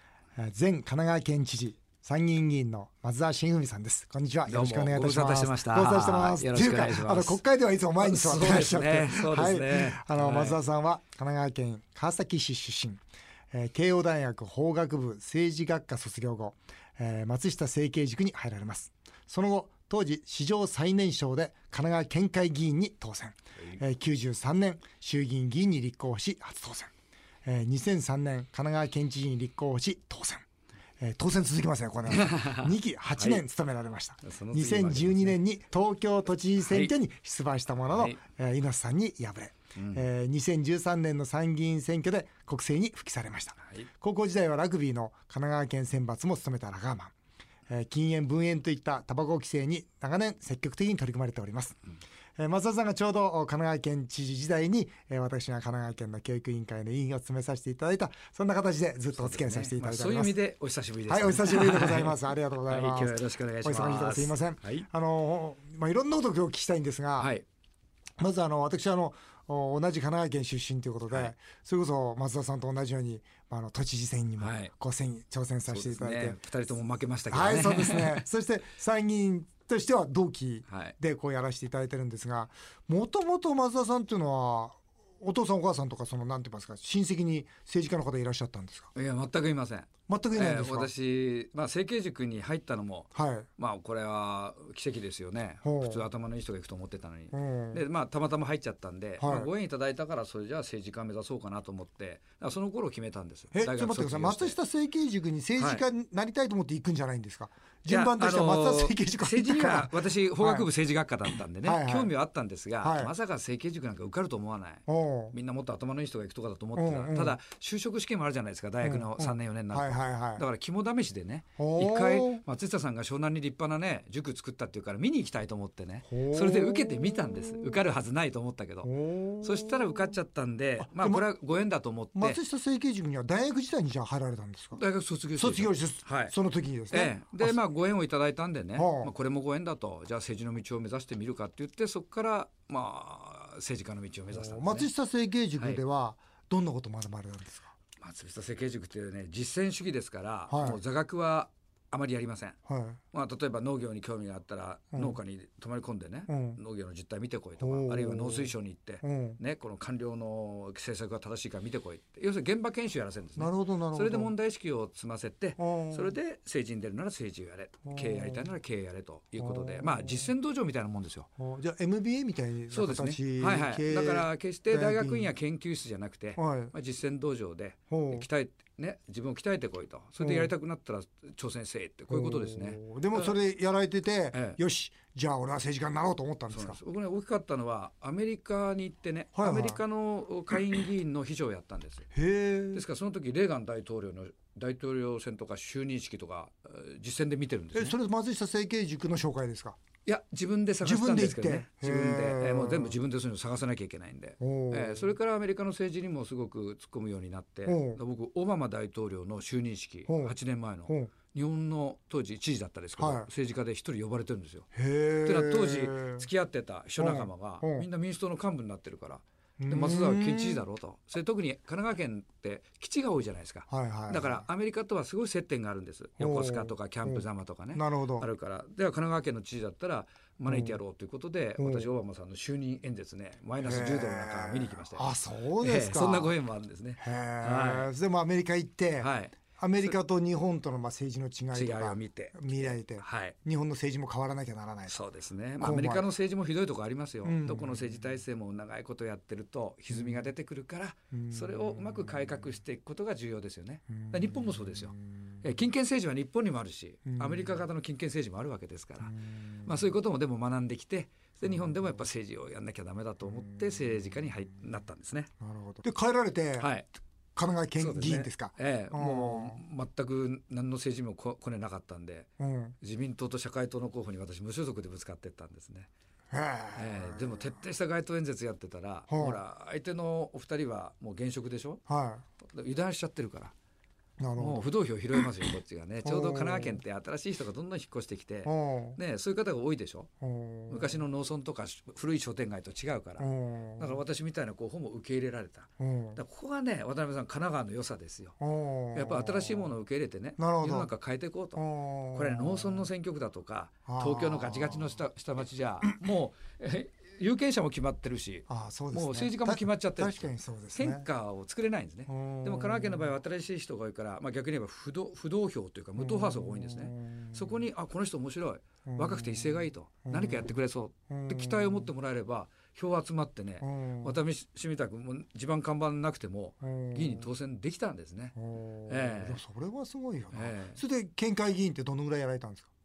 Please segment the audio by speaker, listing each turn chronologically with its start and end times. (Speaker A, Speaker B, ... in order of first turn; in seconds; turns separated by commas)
Speaker A: 0.4-26.9, Speaker B: 4.5-7.4, Speaker B: 8.0-10.6, Speaker A: 27.4-30.4, Speaker A: 31.0-47.1, Speaker B: 32.1-33.4, Speaker B: 34.2-35.4, Speaker B: 36.6-37.0, Speaker B: 37.9-38.2, Speaker B: 39.8-40.1, Speaker B: 43.6-43.9, Speaker A: 47.7-51.8, Speaker A: 52.4-60.4, Speaker B: 59.1-64.9, Speaker A: 61.1-67.3, Speaker B: 67.2-67.5, Speaker A: 68.2-76.4, Speaker B: 74.4-74.7, Speaker B: 75.7-78.2, Speaker A: 77.3-88.9, Speaker B: 80.7-81.0, Speaker B: 88.9-104.6, Speaker A: 90.1-90.9, Speaker A: 93.2-93.5, Speaker A: 95.6-96.0, Speaker A: 97.3-97.8, Speaker A: 99.2-99.5, Speaker A: 103.5-110.7, Speaker B: 105.6-105.8, Speaker B: 107.9-132.4, Speaker A: 111.6-112.1, Speaker A: 112.8-113.1, Speaker A: 114.9-115.3, Speaker A: 116.8-117.4, Speaker A: 118.8-120.5, Speaker A: 121.6-122.4, Speaker A: 126.1-127.8, Speaker A: 128.8-130.1, Speaker A: 130.8-131.3, Speaker A: 132.2-134.8, Speaker B: 134.8-136.4, Speaker A: 135.4-137.6, Speaker B: 136.9-144.9, Speaker A: 138.8-139.1, Speaker A: 144.3-147.7, Speaker B: 145.6-145.8, Speaker B: 148.0-152.6, Speaker A: 150.5-150.8, Speaker A: 152.7-153.0, Speaker B: 153.1-171.3, Speaker A: 156.3-156.6, Speaker A: 157.6-159.4, Speaker A: 163.4-164.3, Speaker A: 165.6-166.1, Speaker A: 167.9-168.5, Speaker A: 169.4-170.3, Speaker A: 171.4-175.3, Speaker B: 172.7-183.4, Speaker A: 176.4-176.7, Speaker A: 177.9-178.3, Speaker A: 180.2-180.5, Speaker A: 182.1-186.8, Speaker B: 184.3-184.6, Speaker B: 186.5-192.1, Speaker A: 189.4-189.8, Speaker A: 190.5-190.8, Speaker A: 192.1-192.8, Speaker B: 192.7-198.0, Speaker A: 197.7-199.8, Speaker B: 200.1-214.7, Speaker A: 200.8-203.0, Speaker A: 204.4-205.2, Speaker A: 207.7-208.0, Speaker A: 210.1-210.4, Speaker A: 213.0-213.3, Speaker A: 214.7-216.3, Speaker B: 215.2-237.9, Speaker A: 217.0-217.9, Speaker A: 219.6-220.7, Speaker A: 223.7-224.5, Speaker A: 226.2-228.3, Speaker A: 230.5-230.8, Speaker A: 231.6-231.9, Speaker A: 233.6-236.3, Speaker A: 237.0-245.0, Speaker B: 239.0-240.0, Speaker B: 241.5-243.4, Speaker B: 244.9-265.3, Speaker A: 245.6-246.1, Speaker A: 247.2-248.2, Speaker A: 249.9-250.3, Speaker A: 251.1-252.6, Speaker A: 253.9-255.4, Speaker A: 257.1-257.6, Speaker A: 259.0-259.9, Speaker A: 261.4-262.0, Speaker A: 263.2-264.3, Speaker A: 265.4-266.7, Speaker B: 266.6-266.9, Speaker A: 267.4-269.6, Speaker B: 267.8-272.3, Speaker A: 272.4-272.8, Speaker B: 272.8-275.9, Speaker A: 276.3-277.6, Speaker B: 276.8-281.8, Speaker A: 279.1-279.4, Speaker A: 281.9-282.2, Speaker B: 282.4-283.5, Speaker A: 284.2-285.2, Speaker B: 284.4-290.1, Speaker A: 286.0-286.8, Speaker A: 288.4-289.0, Speaker A: 290.2-291.0, Speaker B: 290.7-298.4, Speaker A: 293.2-294.0, Speaker A: 295.8-296.2, Speaker A: 298.4-299.7, Speaker B: 298.9-329.4, Speaker A: 300.4-300.9, Speaker A: 301.6-302.9, Speaker A: 303.9-305.0, Speaker A: 308.5-311.1, Speaker A: 312.1-313.1, Speaker A: 316.0-317.7, Speaker A: 318.9-320.6, Speaker A: 321.1-321.9, Speaker A: 323.6-324.2, Speaker A: 326.6-327.3, Speaker A: 328.4-332.7, Speaker B: 330.3-330.8